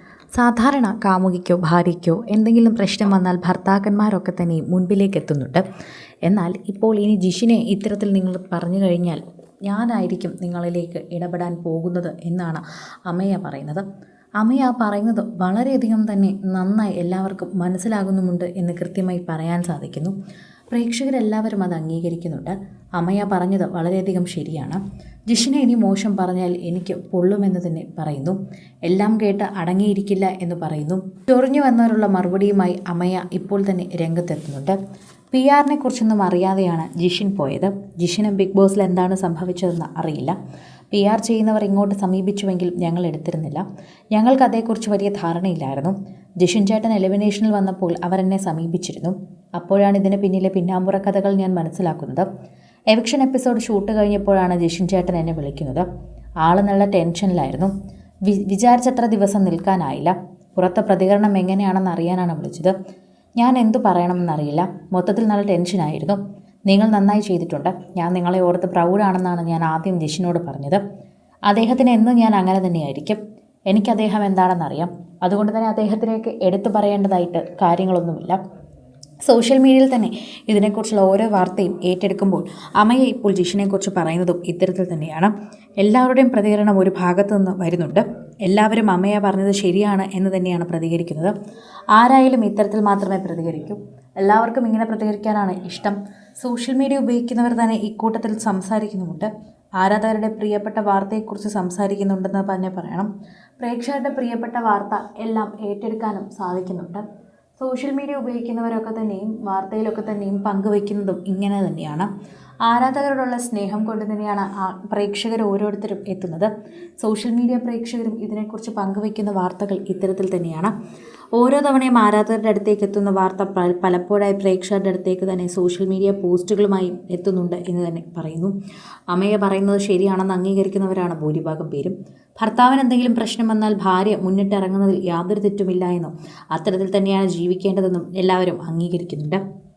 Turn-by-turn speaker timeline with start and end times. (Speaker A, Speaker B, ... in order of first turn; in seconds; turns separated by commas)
Speaker A: 0.3-5.6, Speaker A: 6.3-13.8, Speaker A: 14.4-20.1, Speaker A: 20.7-34.8, Speaker A: 35.3-40.4, Speaker A: 40.9-52.3, Speaker A: 52.9-55.9, Speaker A: 56.4-57.7, Speaker A: 58.3-62.7, Speaker A: 63.4-70.8, Speaker A: 71.5-73.2, Speaker A: 73.7-78.4, Speaker A: 79.3-91.3, Speaker A: 92.0-107.0, Speaker A: 107.6-112.1, Speaker A: 112.7-120.7, Speaker A: 121.3-128.5, Speaker A: 129.1-139.4